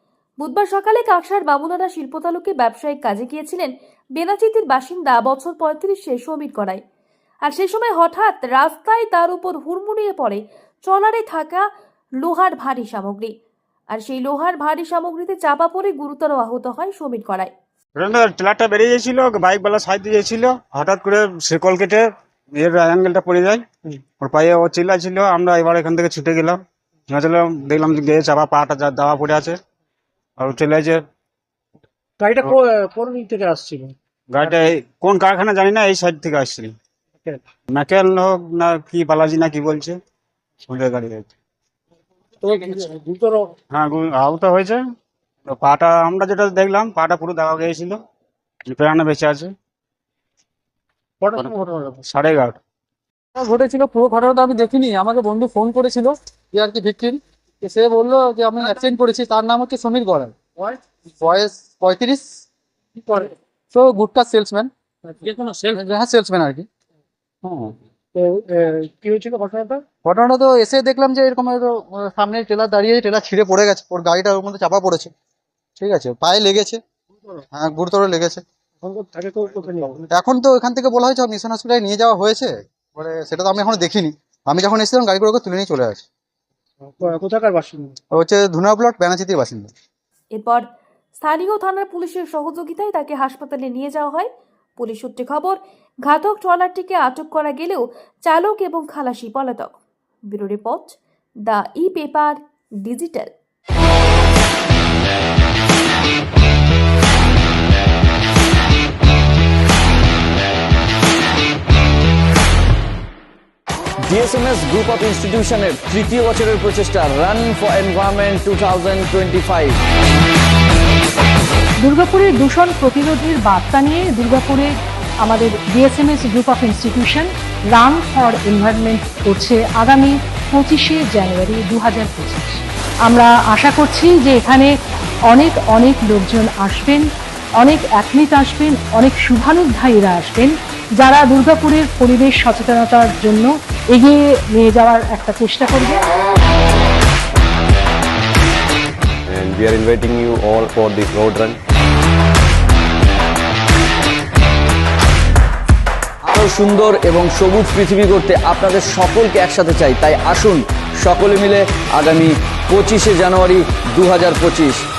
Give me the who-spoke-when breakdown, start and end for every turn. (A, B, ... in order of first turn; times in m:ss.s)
0:00.4-0:06.8 A
0:07.4-0:11.7 A
0:12.2-0:13.4 A
0:13.9-0:17.5 A
0:18.0-0:23.6 B
0:24.2-0:29.6 B
0:30.4-0:31.0 B
0:32.2-0:33.9 C
0:34.3-0:36.8 B
0:37.7-0:40.0 B
0:40.7-0:41.3 B
0:42.4-0:43.5 C
0:43.7-0:44.8 B
0:45.5-0:48.0 B
0:48.7-0:49.5 B
0:51.2-0:52.0 C
0:52.1-0:52.6 B
0:53.4-1:00.4 D
1:01.2-1:02.4 D
1:03.7-1:04.7 D
1:05.1-1:05.7 C
1:05.6-1:06.7 D
1:07.4-1:07.7 D
1:08.2-1:09.8 C
1:10.0-1:15.1 D
1:15.8-1:16.8 D
1:17.5-1:18.4 D
1:18.8-1:20.1 C
1:20.1-1:26.0 D
1:27.0-1:28.0 C
1:28.2-1:29.7 D
1:30.3-1:30.7 A
1:31.2-1:39.8 A
1:40.3-1:43.3 A
1:54.0-1:59.8 E
2:01.8-2:14.8 F
2:15.3-2:17.0 F
2:17.6-2:26.0 F
2:29.3-2:31.6 G
2:36.2-2:44.8 E